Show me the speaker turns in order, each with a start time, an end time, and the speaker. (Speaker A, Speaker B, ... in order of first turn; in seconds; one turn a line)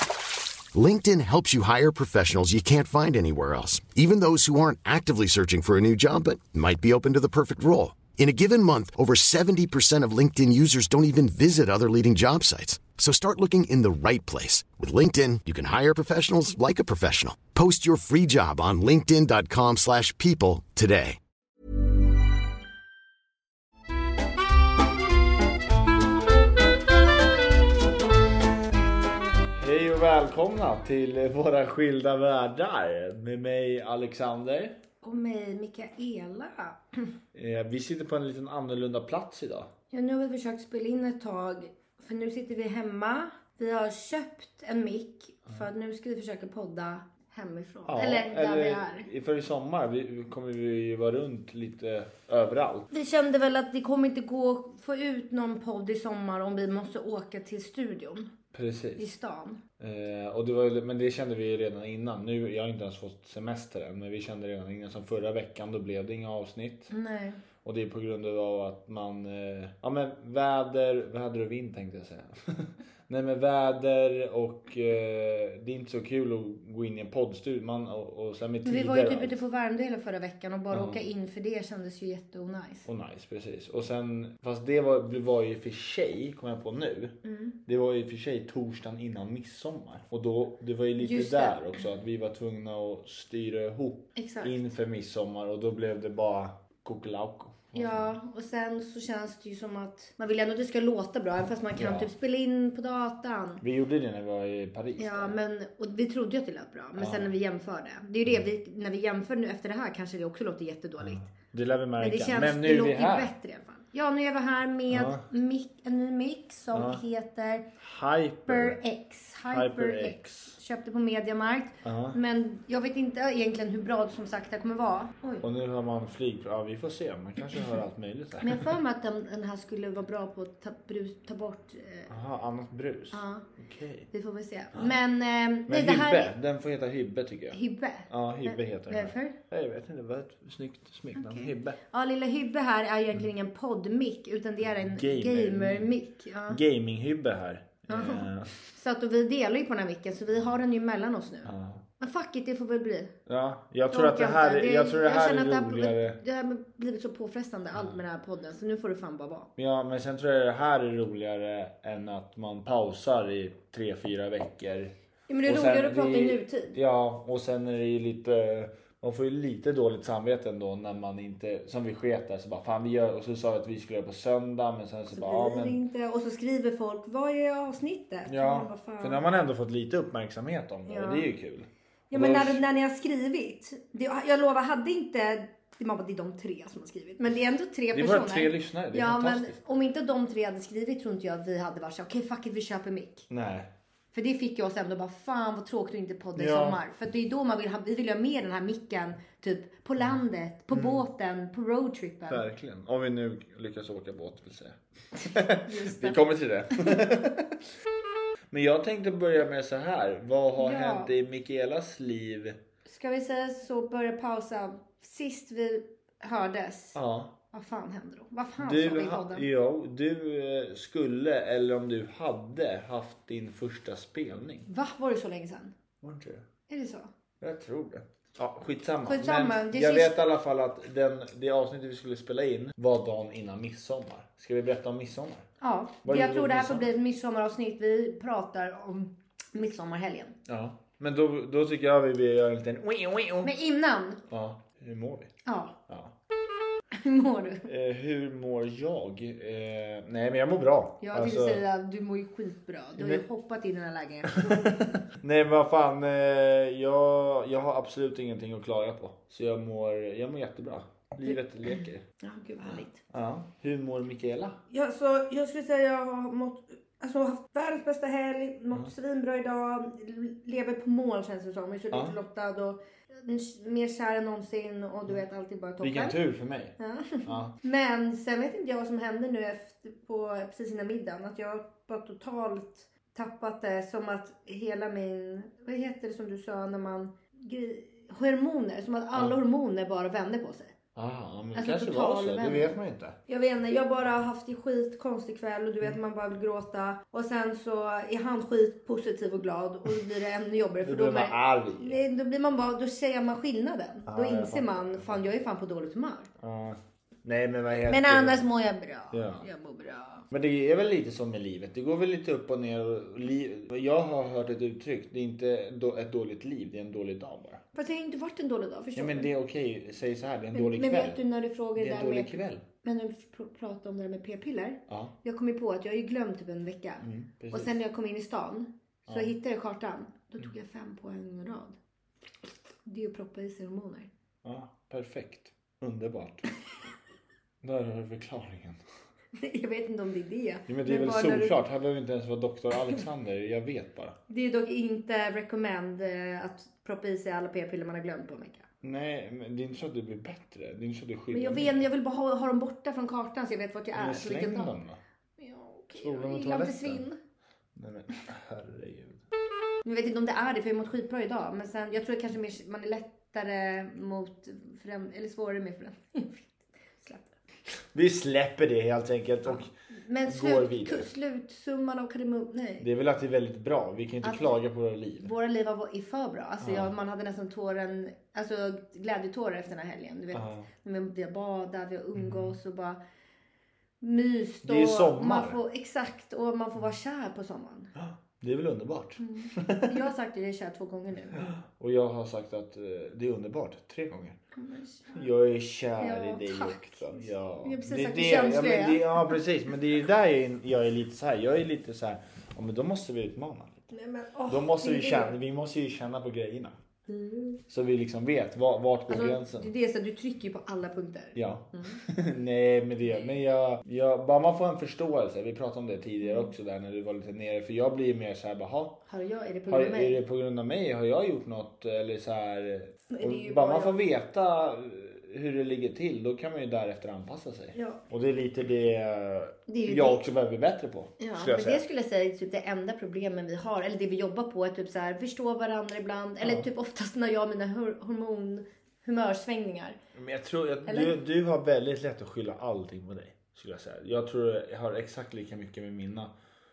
Speaker A: 0.7-21.2
Speaker B: 29.6-34.8
Speaker C: 35.0-37.1
Speaker B: 37.3-39.7
Speaker C: 39.9-49.1
Speaker B: 47.9-52.9
Speaker C: 52.9-58.3
Speaker B: 58.5-59.1
Speaker C: 59.0-59.6
Speaker B: 59.8-66.9
Speaker C: 66.9-67.4
Speaker B: 67.6-79.4
Speaker C: 78.6-82.8
Speaker B: 80.7-81.0
Speaker B: 82.8-98.1
Speaker C: 87.2-87.5
Speaker C: 91.0-91.7
Speaker C: 94.2-94.6
Speaker C: 97.7-103.6
Speaker B: 101.8-102.1
Speaker B: 103.6-105.3
Speaker C: 105.0-111.2
Speaker B: 107.0-107.3
Speaker B: 111.0-113.3
Speaker C: 112.0-117.7
Speaker B: 114.9-115.2
Speaker B: 116.7-117.0
Speaker B: 117.8-118.8
Speaker C: 118.5-125.4
Speaker B: 119.5-120.6
Speaker B: 121.8-122.2
Speaker B: 125.4-128.7
Speaker C: 128.4-132.1
Speaker B: 132.1-134.1
Speaker C: 133.1-133.5
Speaker C: 134.1-136.3
Speaker B: 135.7-141.8
Speaker C: 137.5-139.4
Speaker C: 141.1-146.6
Speaker B: 144.6-145.9
Speaker B: 146.5-148.5
Speaker C: 147.9-153.1
Speaker B: 151.4-151.8
Speaker B: 153.2-156.2
Speaker C: 153.9-159.5
Speaker B: 159.6-164.9
Speaker C: 165.3-166.7
Speaker B: 165.4-175.8
Speaker C: 175.1-179.2
Speaker B: 178.3-182.6
Speaker C: 180.8-181.3
Speaker C: 182.1-193.2
Speaker B: 187.9-189.6
Speaker B: 193.3-193.7
Speaker C: 194.1-202.5
Speaker B: 196.3-196.8
Speaker B: 200.7-201.0
Speaker B: 202.3-207.6
Speaker C: 205.6-206.2
Speaker B: 208.5-212.6
Speaker C: 210.6-211.1
Speaker C: 212.8-217.0
Speaker B: 216.9-217.3
Speaker C: 217.5-219.5
Speaker B: 218.6-224.7
Speaker C: 224.7-225.7
Speaker B: 226.0-226.4
Speaker C: 226.7-227.1
Speaker B: 227.4-235.4
Speaker C: 229.1-230.3
Speaker C: 235.6-240.3
Speaker B: 236.0-236.9
Speaker B: 240.5-243.5
Speaker C: 243.4-244.2
Speaker B: 244.3-245.3
Speaker C: 245.4-245.8
Speaker C: 246.9-247.7
Speaker B: 247.7-251.6
Speaker C: 251.0-254.6
Speaker B: 252.9-253.2
Speaker B: 254.3-262.0
Speaker C: 261.2-263.0
Speaker B: 263.1-264.6
Speaker C: 264.7-276.2
Speaker B: 271.9-272.1
Speaker B: 275.8-277.5
Speaker C: 276.8-290.7
Speaker B: 290.9-293.1
Speaker C: 291.5-292.7
Speaker C: 293.3-306.3
Speaker B: 300.8-302.0
Speaker B: 304.1-305.2
Speaker B: 306.4-308.4
Speaker C: 307.9-310.2
Speaker B: 309.1-309.4
Speaker B: 310.3-317.6
Speaker C: 317.7-319.3
Speaker B: 318.9-321.2
Speaker C: 320.5-331.8
Speaker B: 321.8-322.6
Speaker B: 324.9-325.1
Speaker B: 327.0-327.8
Speaker B: 329.1-329.3
Speaker C: 332.8-334.1
Speaker B: 334.4-336.4
Speaker B: 337.6-338.8
Speaker C: 339.4-341.6
Speaker B: 340.7-344.1
Speaker C: 344.3-348.6
Speaker B: 348.8-351.8
Speaker C: 351.3-354.8
Speaker B: 353.9-355.0
Speaker C: 355.4-357.2
Speaker B: 355.9-357.0
Speaker B: 357.7-359.2
Speaker C: 359.8-367.3
Speaker B: 367.9-369.7
Speaker C: 369.5-372.9
Speaker B: 370.2-371.1
Speaker B: 372.8-375.3
Speaker C: 374.2-374.6
Speaker C: 375.2-383.0
Speaker B: 376.6-376.9
Speaker B: 380.3-380.7
Speaker B: 382.1-382.5
Speaker C: 384.0-387.9
Speaker B: 384.6-385.6
Speaker B: 387.9-390.0
Speaker C: 389.2-391.5
Speaker B: 391.4-394.4
Speaker C: 394.6-395.3
Speaker B: 395.1-403.8
Speaker C: 396.0-399.4
Speaker C: 403.9-405.4
Speaker B: 404.5-406.8
Speaker C: 407.1-407.6
Speaker B: 407.7-409.7
Speaker C: 409.1-412.0
Speaker B: 411.3-419.0
Speaker C: 416.2-416.5
Speaker C: 419.1-420.2
Speaker B: 419.7-431.8
Speaker C: 423.1-424.0
Speaker C: 427.7-428.0
Speaker C: 429.7-430.2
Speaker C: 431.2-440.0
Speaker B: 436.4-436.7
Speaker B: 440.1-446.3
Speaker C: 440.9-441.1